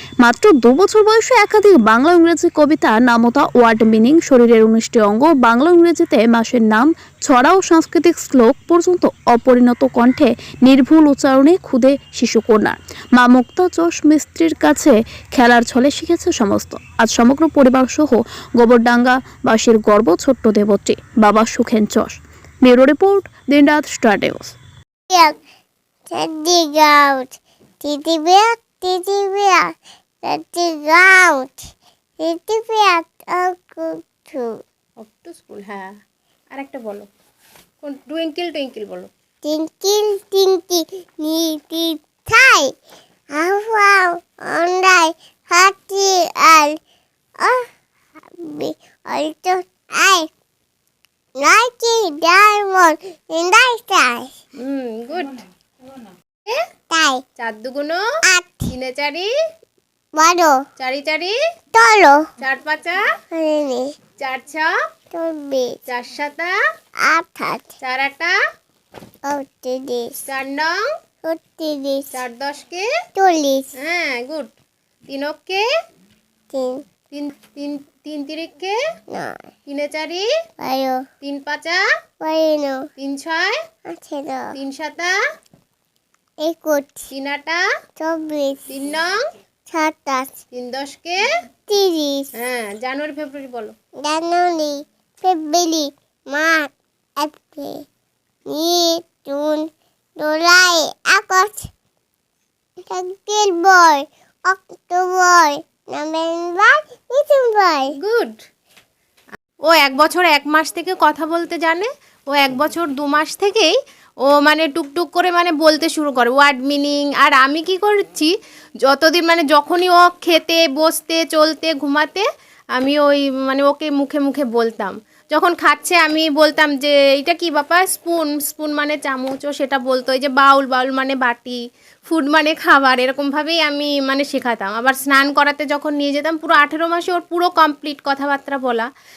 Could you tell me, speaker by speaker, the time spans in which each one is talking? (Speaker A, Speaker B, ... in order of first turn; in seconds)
Speaker A: 0.2-24.6
Speaker B: 25.1-25.4, 26.1-31.7, 32.2-34.6, 39.4-42.7, 43.4-46.8, 47.4-47.7, 48.4-50.3, 51.4-54.3, 56.9-57.2, 58.3-58.7, 60.2-60.5, 61.7-62.2, 63.3-63.9, 65.1-65.8, 67.1-67.8, 69.2-70.1, 71.2-72.2, 73.2-73.7, 76.5-76.8, 79.1-79.5, 80.6-81.0, 82.2-82.9, 83.9-84.5, 86.4-87.1, 88.0-88.7, 89.7-90.4, 91.7-92.3, 94.0-97.8, 98.5-99.6, 100.2-101.7, 102.9-108.0
Speaker C: 35.0-35.9, 36.5-37.1, 37.8-39.1, 54.6-55.4, 57.4-58.0, 58.7-59.3, 60.8-61.4, 62.4-63.0, 64.2-64.7, 65.9-66.5, 67.8-68.3, 70.3-70.7, 72.1-72.9, 73.8-74.5, 75.1-75.7, 77.1-78.8, 79.7-80.3, 81.2-81.8, 83.0-83.6, 84.5-85.2, 87.1-87.6, 88.7-89.2, 90.5-91.3, 92.4-93.7, 108.0-108.4, 109.7-113.7, 114.3-118.3, 118.9-138.9